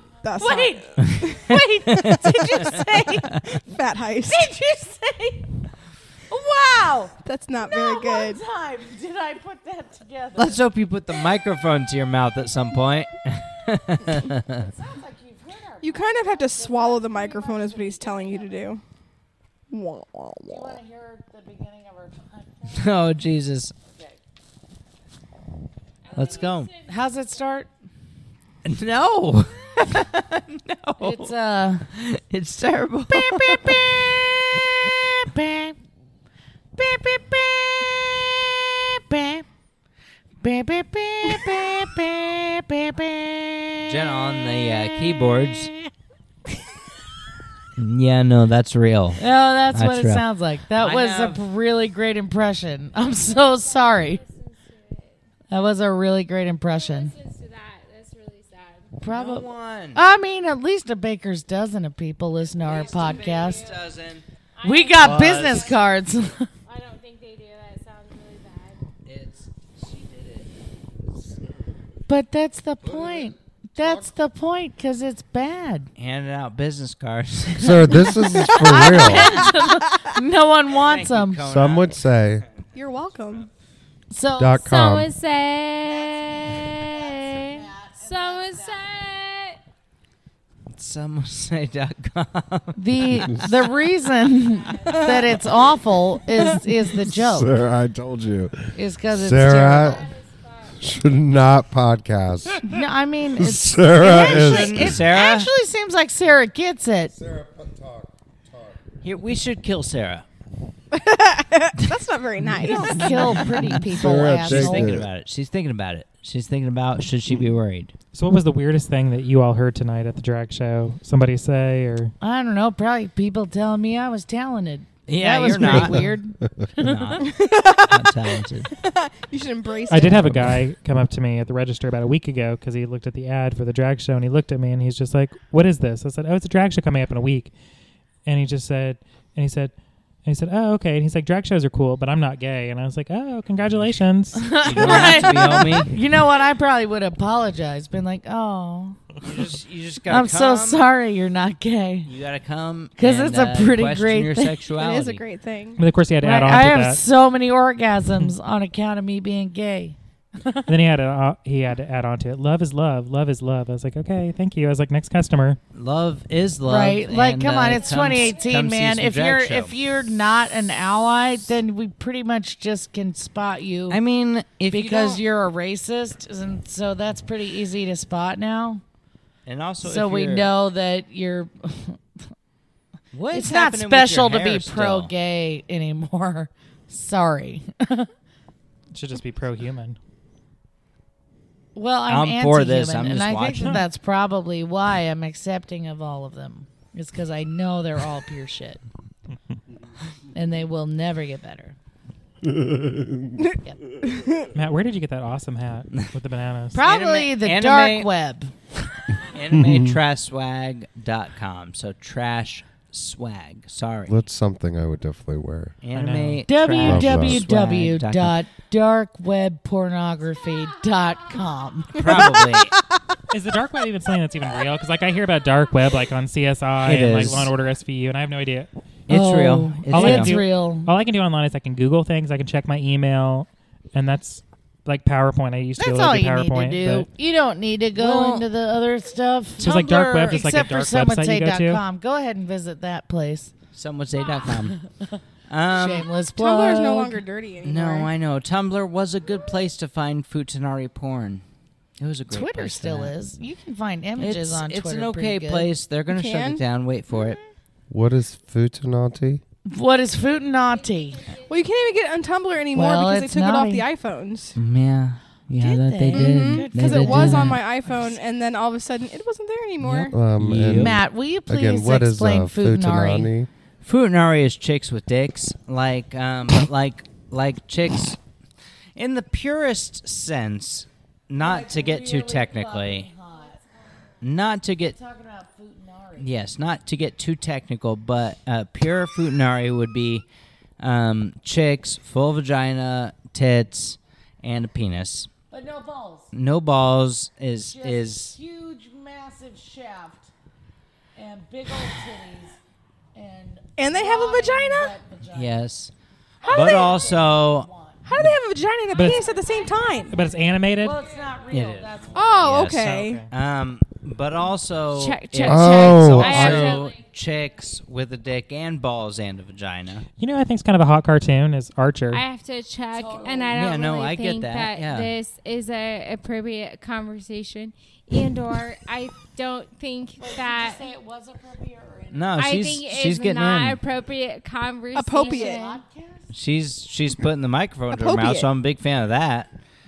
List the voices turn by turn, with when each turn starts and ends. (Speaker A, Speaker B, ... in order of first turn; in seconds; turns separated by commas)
Speaker A: 0.2-1.6, Speaker B: 0.3-3.4, Speaker C: 1.0-3.6, Speaker A: 3.5-4.5, Speaker B: 4.3-5.5, Speaker B: 6.3-10.6, Speaker A: 7.2-8.4, Speaker C: 10.4-14.7, Speaker B: 14.6-18.7, Speaker A: 15.8-18.8, Speaker A: 19.7-20.6, Speaker B: 20.5-23.0, Speaker C: 22.7-23.8, Speaker B: 23.9-24.2, Speaker D: 26.0-27.1, Speaker C: 26.1-26.7, Speaker B: 26.9-27.7, Speaker C: 28.6-31.3, Speaker B: 31.0-31.9, Speaker C: 31.9-34.0, Speaker B: 33.1-34.0, Speaker B: 35.2-35.8, Speaker B: 36.8-39.5, Speaker B: 40.4-44.2, Speaker C: 43.8-45.7, Speaker B: 45.2-45.5, Speaker C: 47.8-49.2, Speaker B: 49.2-54.2, Speaker C: 49.7-50.2, Speaker C: 50.8-51.4, Speaker D: 53.0-55.2, Speaker B: 55.5-57.1, Speaker D: 56.7-58.9, Speaker B: 59.0-63.6, Speaker C: 59.1-60.0, Speaker D: 62.5-63.9, Speaker C: 62.7-64.2, Speaker D: 64.5-65.9, Speaker B: 64.6-66.5, Speaker C: 65.0-65.8, Speaker D: 66.7-68.8, Speaker C: 69.1-70.5, Speaker B: 72.1-75.9, Speaker C: 76.0-78.2, Speaker E: 77.6-79.4, Speaker B: 78.5-81.4, Speaker A: 78.8-79.6, Speaker C: 80.8-82.6, Speaker E: 81.4-82.5, Speaker A: 82.8-83.5, Speaker B: 84.1-84.7, Speaker E: 84.4-85.1, Speaker D: 84.6-89.6, Speaker B: 85.9-89.0, Speaker C: 90.7-93.7, Speaker B: 92.8-97.5, Speaker D: 94.3-95.5, Speaker A: 94.9-95.2, Speaker E: 97.0-100.1, Speaker B: 98.7-100.0, Speaker D: 99.6-100.8, Speaker E: 100.8-102.8, Speaker B: 102.6-107.1, Speaker E: 103.4-105.0, Speaker C: 104.0-105.5, Speaker E: 107.3-108.1, Speaker C: 109.0-110.2, Speaker A: 110.9-113.5, Speaker B: 112.6-115.0, Speaker C: 112.7-117.9, Speaker E: 113.8-115.1, Speaker F: 118.1-122.1, Speaker B: 122.2-127.0, Speaker C: 125.1-126.1, Speaker C: 126.8-128.7, Speaker A: 127.2-130.5, Speaker F: 129.9-137.5, Speaker F: 138.2-139.7, Speaker F: 140.2-144.6, Speaker B: 144.3-149.1, Speaker C: 144.6-145.9, Speaker A: 144.8-145.7, Speaker C: 149.2-150.8, Speaker B: 150.1-152.1, Speaker C: 152.1-155.2, Speaker B: 153.0-154.6, Speaker A: 154.8-155.8, Speaker F: 155.8-157.0, Speaker B: 156.2-160.6, Speaker F: 160.7-165.6, Speaker C: 165.7-169.7, Speaker B: 166.7-174.0, Speaker C: 173.9-175.2, Speaker B: 174.7-178.8, Speaker C: 179.5-180.5, Speaker B: 179.8-182.0, Speaker C: 183.1-185.1, Speaker B: 183.3-188.1, Speaker F: 188.9-190.0, Speaker B: 191.8-198.8, Speaker C: 192.1-193.8, Speaker B: 200.3-201.8, Speaker E: 202.5-203.4, Speaker A: 203.4-204.5, Speaker F: 204.6-206.8, Speaker B: 206.7-208.5, Speaker C: 206.8-208.1, Speaker C: 209.3-214.1, Speaker E: 209.6-210.0, Speaker E: 214.1-215.8, Speaker C: 215.8-218.3, Speaker F: 215.9-216.5, Speaker B: 216.5-222.2, Speaker E: 216.8-217.4, Speaker C: 221.9-222.8, Speaker A: 222.0-222.7, Speaker F: 223.3-228.7, Speaker C: 226.8-227.5, Speaker C: 229.1-230.4, Speaker B: 229.1-230.9, Speaker F: 229.9-237.1, Speaker B: 235.8-243.5, Speaker C: 237.9-238.5, Speaker C: 239.6-240.2, Speaker F: 239.6-241.8, Speaker C: 243.7-244.8, Speaker C: 245.5-246.1, Speaker B: 245.7-247.2, Speaker A: 246.4-248.1, Speaker C: 247.6-251.4, Speaker C: 252.0-253.1, Speaker B: 252.3-255.7, Speaker C: 254.2-257.4, Speaker A: 256.1-256.6, Speaker E: 257.9-259.4, Speaker B: 259.7-261.2, Speaker D: 260.5-262.1, Speaker A: 261.5-264.6, Speaker B: 262.7-263.9, Speaker C: 264.6-267.6, Speaker B: 265.6-267.6, Speaker A: 266.1-270.2, Speaker C: 269.8-271.0, Speaker E: 270.1-273.5, Speaker B: 270.7-273.3, Speaker C: 273.8-278.2, Speaker C: 279.0-283.1, Speaker B: 281.4-283.6, Speaker C: 284.2-285.0, Speaker B: 284.9-286.3, Speaker C: 286.2-290.2, Speaker C: 290.8-295.3, Speaker B: 295.5-296.3, Speaker C: 296.3-298.4, Speaker B: 297.7-300.3, Speaker B: 301.2-302.6, Speaker B: 303.1-305.6, Speaker A: 303.8-304.9, Speaker C: 305.3-305.9, Speaker B: 306.4-308.0, Speaker A: 306.5-307.0, Speaker C: 306.5-307.7, Speaker A: 308.1-310.2, Speaker F: 308.9-309.2, Speaker D: 309.2-310.1, Speaker F: 310.1-311.0, Speaker B: 310.8-312.3, Speaker C: 311.5-320.1, Speaker A: 312.1-313.2, Speaker F: 313.0-313.3, Speaker D: 314.9-317.0, Speaker E: 315.5-316.8, Speaker F: 320.2-322.2, Speaker D: 322.1-330.8, Speaker B: 322.9-323.6, Speaker C: 323.5-325.1, Speaker B: 330.2-332.3, Speaker C: 332.1-333.8, Speaker D: 332.4-335.8, Speaker A: 334.9-335.6, Speaker B: 335.2-336.3, Speaker C: 336.3-339.5, Speaker A: 337.9-338.5